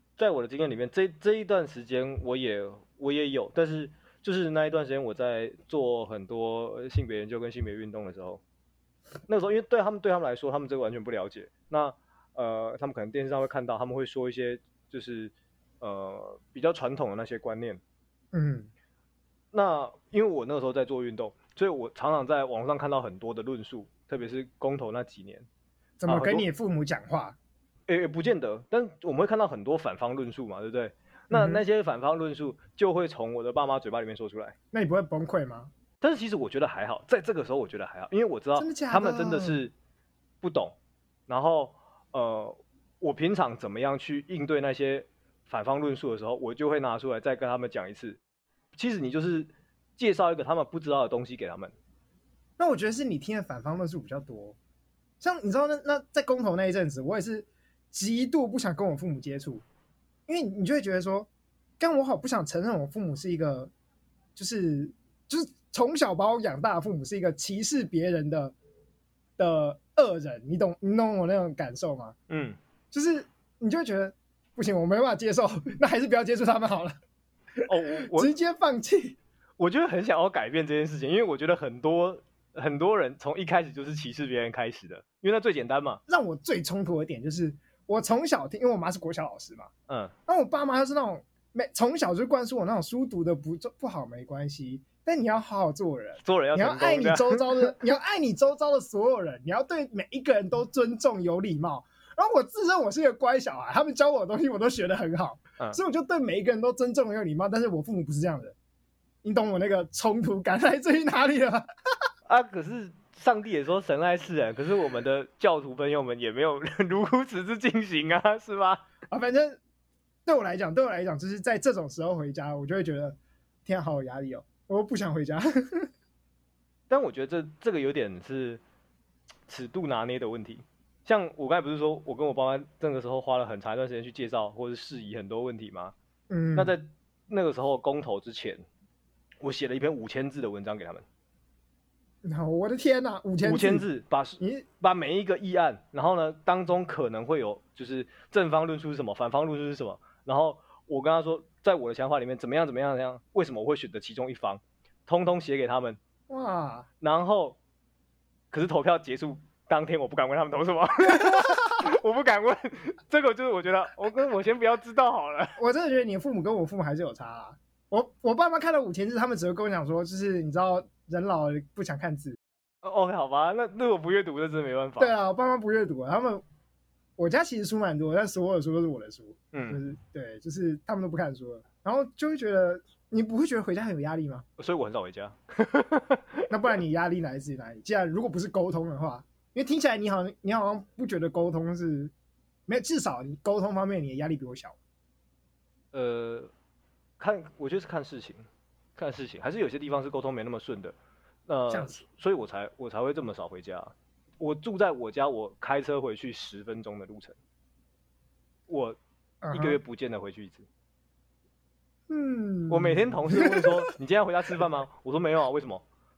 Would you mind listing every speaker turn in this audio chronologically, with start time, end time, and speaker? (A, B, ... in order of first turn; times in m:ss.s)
0:00.2-0:08.4 A
0:09.3-0:17.8 A
0:18.3-0:18.7 B
0:19.5-0:25.5 A
0:26.0-0:27.4 B
0:26.0-0:26.4 A
0:27.9-0:34.5 A
0:31.3-0:31.6 B
0:34.7-0:35.7 B
0:36.0-0:39.7 A
0:38.6-0:39.6 B
0:40.4-0:40.8 A
0:41.3-0:48.2 A
0:48.7-0:51.7 A
0:52.6-0:54.6 B
0:55.2-0:59.6 B
1:00.3-1:01.3 B
1:01.8-1:03.7 B
1:04.4-1:08.5 B
1:09.4-1:12.2 B
1:12.3-1:12.6 A
1:12.9-1:16.9 B
1:17.6-1:18.3 A
1:17.8-1:19.2 B
1:19.6-1:26.0 A
1:26.1-1:29.7 B
1:29.9-1:30.1 A
1:30.3-1:48.6 B
1:36.2-1:37.7 A
1:49.2-1:51.7 B
1:52.2-1:58.9 A
1:59.1-1:59.6 B
2:00.2-2:05.9 B
2:06.9-2:08.6 A
2:09.5-2:15.9 A
2:16.3-2:16.8 B
2:16.5-2:18.6 A
2:19.4-2:21.0 A
2:22.2-2:23.9 B
2:23.4-2:36.0 A
2:24.4-2:24.6 B
2:36.3-2:36.9 B
2:37.0-2:37.6 A
2:38.5-2:45.6 A
2:41.2-2:41.7 B
2:45.6-2:52.4 B
2:52.8-2:55.1 A
2:55.0-2:56.4 B
2:57.2-3:04.4 B
2:59.5-2:59.8 A
3:04.6-3:06.5 A
3:06.5-3:12.1 B
3:12.7-3:14.8 B
3:15.9-3:16.5 A
3:17.2-3:21.0 A
3:21.5-3:27.4 A
3:21.7-3:22.0 B
3:28.7-3:29.0 A
3:29.4-3:29.8 B
3:29.5-3:30.7 A
3:32.1-3:33.9 B
3:32.7-3:35.8 A